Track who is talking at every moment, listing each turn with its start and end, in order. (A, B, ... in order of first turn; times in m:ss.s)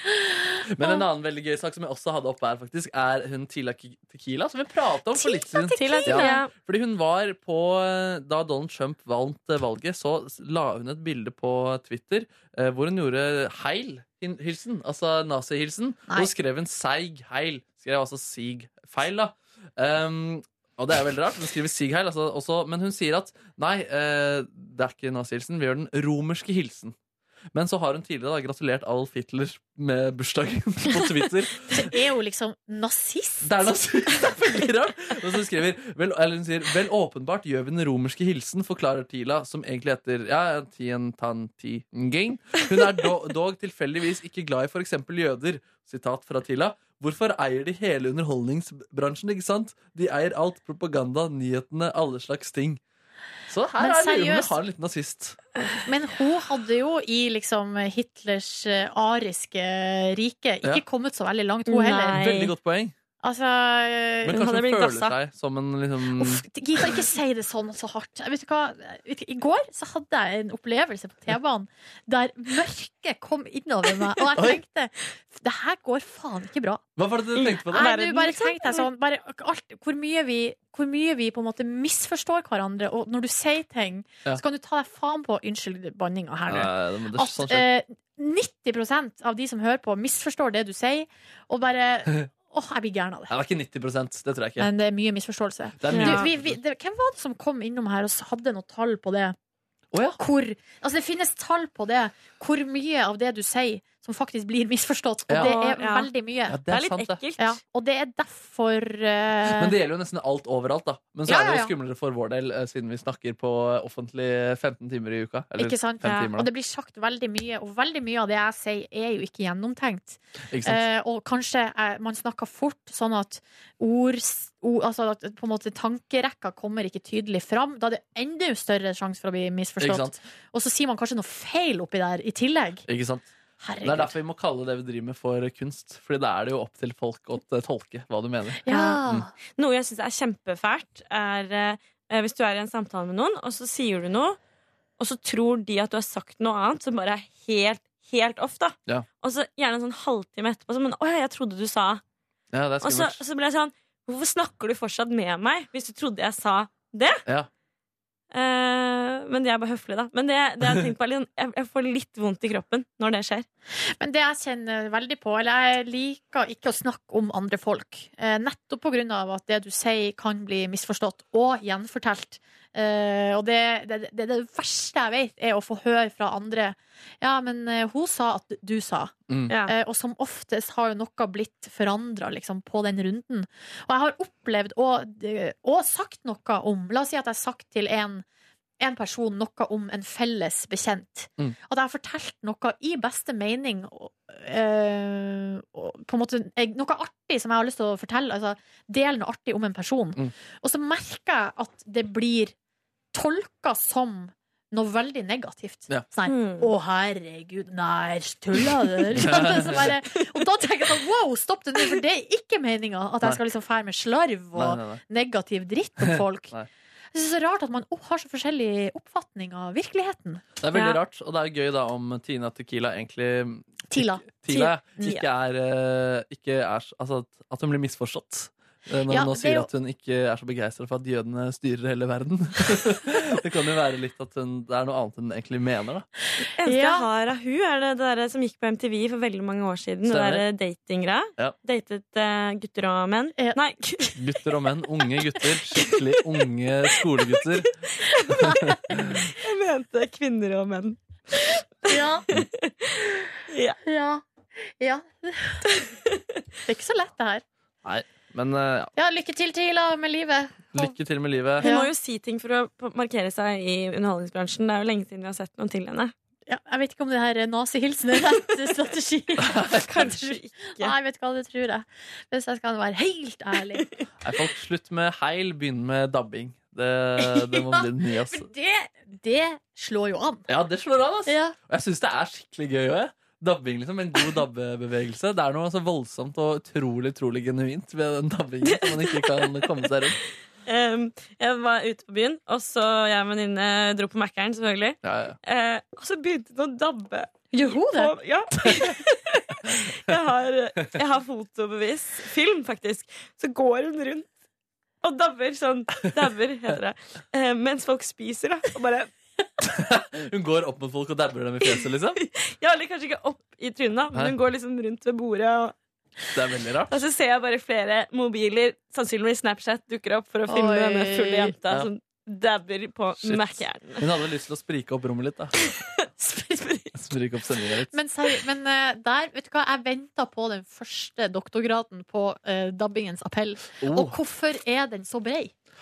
0:00.7-0:27.0 A
0:05.2-0:06.4 B
0:05.8-0:06.5 C
0:27.5-0:31.9 A
0:31.7-0:33.8 B
0:33.4-0:52.8 A
0:53.5-0:55.4 A
0:53.8-0:54.6 B
0:55.8-1:02.3 B
1:01.7-1:02.5 C
1:02.1-1:03.0 A
1:03.2-1:04.6 B
1:04.3-1:06.4 A
1:04.3-1:05.1 C
1:06.2-1:16.8 B
1:17.0-1:17.9 A
1:17.4-1:18.9 C
1:17.7-1:33.3 B
1:26.5-1:27.7 A
1:33.3-1:34.7 A
1:34.6-1:39.4 B
1:35.8-1:36.6 A
1:35.9-1:36.3 C
1:39.9-1:40.2 A
1:40.2-1:46.6 B
1:45.3-1:45.6 A
1:45.3-1:46.1 C
1:46.5-1:47.2 A
1:46.7-1:47.6 C
1:47.4-1:49.7 B
1:49.5-1:56.5 A
1:51.3-1:51.7 B
1:55.6-2:12.9 B
1:56.0-1:56.3 C
2:00.5-2:00.8 A
2:09.8-2:10.2 A
2:12.9-2:13.3 A
2:13.6-2:14.2 B
2:13.8-2:19.2 A
2:18.6-2:19.3 B
2:18.7-2:24.4 C
2:25.0-2:32.0 C
2:32.5-2:33.2 A
2:32.8-2:37.2 C
2:38.3-2:43.5 C
2:43.8-2:59.1 B
2:59.6-3:08.2 B
3:08.8-3:22.5 B
3:23.1-3:36.6 B
3:26.3-3:26.7 C
3:29.1-3:29.9 A
3:34.6-3:35.0 A
3:37.1-3:40.4 B
3:40.6-3:56.1 A
3:40.7-3:41.0 C
3:43.9-3:45.2 B
3:44.5-3:45.2 C
3:49.1-3:49.7 B
3:56.6-4:04.2 C
3:56.6-3:57.1 B
4:00.0-4:00.4 A
4:04.2-4:07.7 A
4:05.8-4:06.2 C
4:07.2-4:08.6 C
4:08.4-4:08.7 B
4:08.5-4:09.2 A
4:09.4-4:13.0 C
4:11.9-4:12.2 B
4:13.5-4:13.8 C
4:13.8-4:15.6 B
4:16.7-4:17.4 B
4:17.8-4:18.9 A
4:19.0-4:20.9 B
4:20.7-4:21.7 A
4:21.6-4:26.1 C
4:21.6-4:21.9 B
4:26.5-4:33.9 B
4:29.6-4:30.0 A
4:29.7-4:31.0 C
4:34.2-4:38.5 A
4:37.2-4:40.5 B
4:40.5-4:50.2 A
4:41.3-4:41.6 B
4:48.6-4:50.1 C
4:50.7-5:04.3 C
4:55.0-4:55.4 A
4:57.5-4:58.2 B
5:05.0-5:09.1 C
5:09.7-5:12.2 A
5:11.6-5:15.8 C
5:16.4-5:17.0 A
5:16.9-5:24.1 C
5:20.5-5:21.5 B
5:23.2-5:25.5 A
5:25.6-5:26.0 C
5:26.2-5:26.7 B
5:26.6-5:26.9 C
5:27.0-5:28.0 A
5:27.9-5:35.5 B
5:33.8-5:34.2 A